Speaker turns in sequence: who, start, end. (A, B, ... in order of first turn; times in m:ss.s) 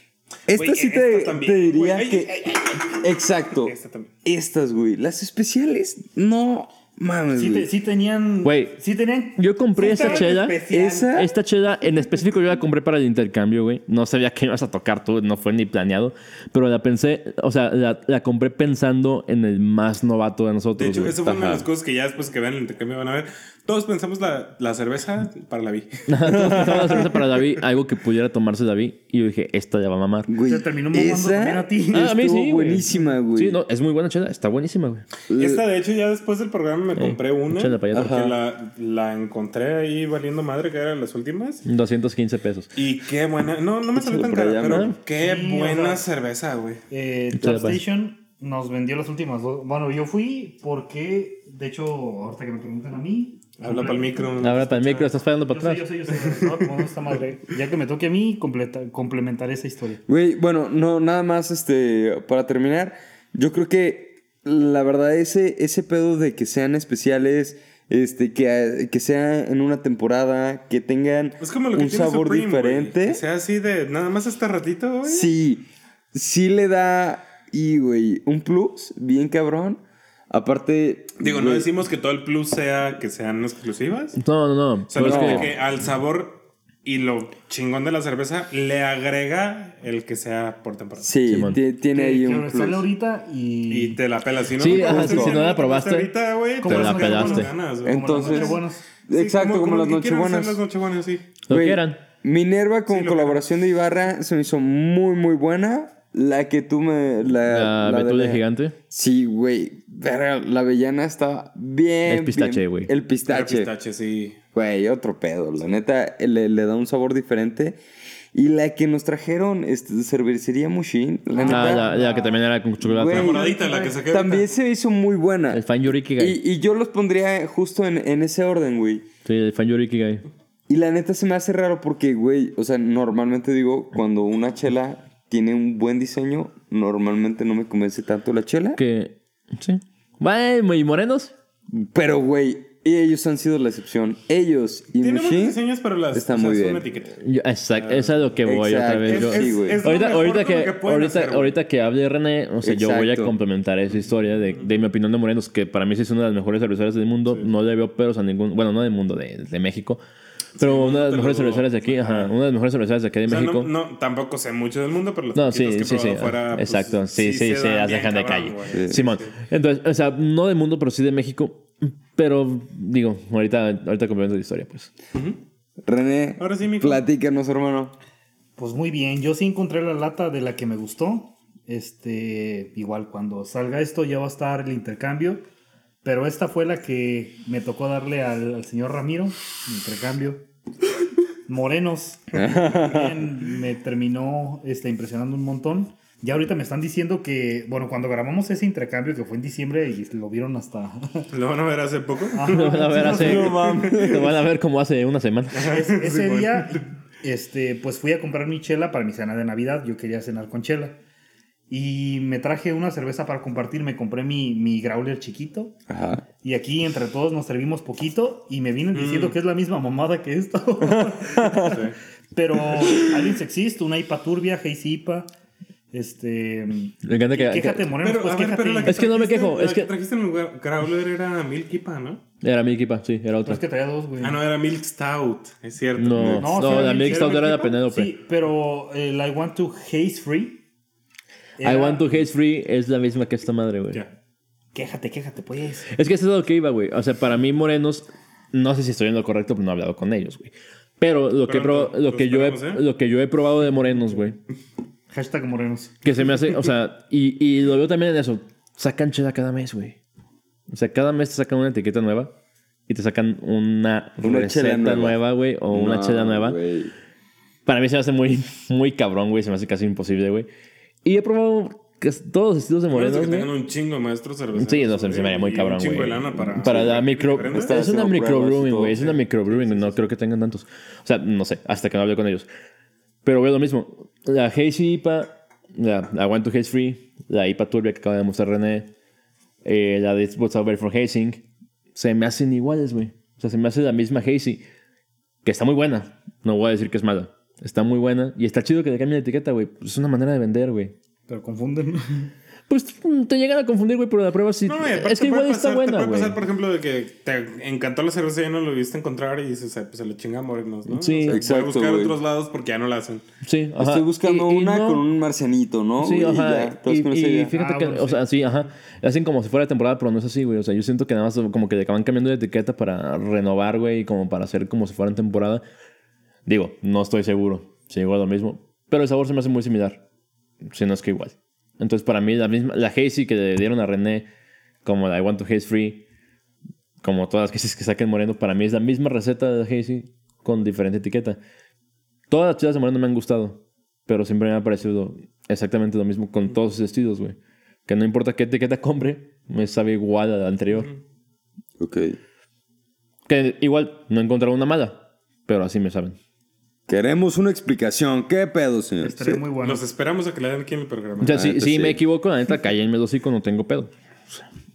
0:00.5-0:03.7 A
0:00.5-0:04.1 B
0:04.2-0:07.7 A
0:07.3-0:11.2 C
0:08.4-0:08.8 D
0:09.4-0:10.6 D
0:10.7-0:11.3 A
0:11.1-0:21.2 D
0:20.8-0:27.1 B
0:21.1-0:21.7 A
0:26.1-0:30.3 D
0:26.3-0:27.1 A
0:30.3-0:33.6 A
0:30.4-0:32.2 C
0:31.9-0:35.1 D
0:35.3-0:35.7 A
0:35.3-0:41.6 B
0:37.0-0:38.2 D
0:37.9-0:38.4 A
0:41.6-0:42.7 D
0:42.8-0:46.8 B
0:44.0-0:44.9 A
0:44.7-0:45.0 D
0:45.2-0:46.1 C
0:46.9-0:54.5 C
0:47.3-0:47.8 D
0:53.6-0:55.1 B
0:54.4-0:55.9 D
0:55.5-1:00.0 C
0:56.1-0:57.2 B
1:00.1-1:13.2 A
1:11.4-1:15.3 B
1:15.0-1:21.7 A
1:21.2-1:24.2 B
1:24.2-1:25.5 D
1:24.9-1:31.1 B
1:25.0-1:25.5 A
1:31.0-1:32.9 A
1:31.3-1:31.6 D
1:31.9-1:34.0 C
1:33.7-1:41.3 B
1:34.6-1:36.1 D
1:34.8-1:35.4 A
1:36.6-1:38.8 C
1:36.6-1:37.5 D
1:37.8-1:40.6 A
1:41.5-1:42.0 D
1:41.5-1:53.7 A
1:42.9-1:43.4 B
1:47.5-1:48.8 D
1:52.1-1:52.9 D
1:53.3-1:54.4 B
1:54.5-1:57.8 A
1:58.3-2:01.9 A
2:01.3-2:02.4 C
2:01.5-2:03.4 D
2:02.8-2:09.0 A
2:03.1-2:04.5 B
2:05.5-2:06.4 D
2:09.2-2:10.2 D
2:10.7-2:18.8 A
2:18.8-2:21.3 D
2:21.7-2:25.6 A
2:25.0-2:27.2 B
2:26.1-2:26.8 A
2:27.2-2:40.0 D
2:27.7-2:28.2 B
2:28.4-2:29.8 A
2:29.0-2:31.6 B
2:32.6-2:33.4 A
2:40.6-2:42.3 B
2:40.6-2:43.7 D
2:43.3-2:49.4 B
2:45.4-2:54.9 D
2:48.7-2:49.0 A
2:55.1-2:55.4 B
2:55.9-2:57.9 A
2:56.4-2:57.0 B
2:58.6-3:05.4 C
3:06.0-3:10.4 C
3:11.5-3:21.3 C
3:12.3-3:13.2 A
3:21.3-3:24.3 B
3:22.3-3:23.5 C
3:22.5-3:25.7 D
3:23.0-3:24.3 A
3:25.5-3:26.8 B
3:25.7-3:31.0 C
3:31.7-3:35.7 C
3:35.9-3:36.2 A
3:36.4-3:41.8 C
3:38.9-3:39.4 B
3:40.8-3:41.8 A
3:41.7-3:42.0 B
3:42.3-3:45.3 C
3:45.9-3:49.0 C
3:47.0-3:47.9 D
3:48.0-3:52.2 B
3:48.8-3:49.9 D
3:52.4-3:53.6 D
3:53.4-3:54.4 C
3:54.2-3:57.7 B
3:56.0-3:58.1 D
3:56.4-4:00.6 C
4:01.6-4:02.1 C
4:01.6-4:04.0 D
4:04.7-4:05.9 C
4:05.9-4:14.4 D
4:11.5-4:12.8 B
4:15.1-4:16.0 C
4:16.0-4:20.0 D
4:20.7-4:22.3 D
4:22.9-4:26.6 D
4:24.2-4:26.9 A
4:27.7-4:30.5 D
4:31.0-4:33.5 D
4:32.9-4:37.8 B
4:34.6-4:42.5 D
4:36.6-4:39.9 A
4:38.9-4:39.9 B
4:43.2-4:48.9 D
4:49.6-4:51.4 D
4:52.0-4:54.6 D
4:55.4-5:00.9 D
5:01.3-5:02.3 C
5:02.7-5:06.4 D
5:04.7-5:13.2 B
5:10.9-5:11.4 D
5:11.3-5:12.2 A
5:13.4-5:15.0 D
5:13.8-5:17.5 A
5:16.0-5:25.6 D
5:17.5-5:18.2 C
5:26.5-5:30.0 D
5:30.7-5:34.3 D
5:34.8-5:36.0 D
5:37.0-5:41.4 D
5:42.3-5:50.9 D
5:50.7-5:51.0 B
5:51.8-5:52.2 A
5:53.3-5:56.2 D
5:56.9-5:59.4 A
5:59.0-5:59.8 C
5:59.6-6:01.4 B
6:01.2-6:04.4 D
6:01.3-6:02.0 A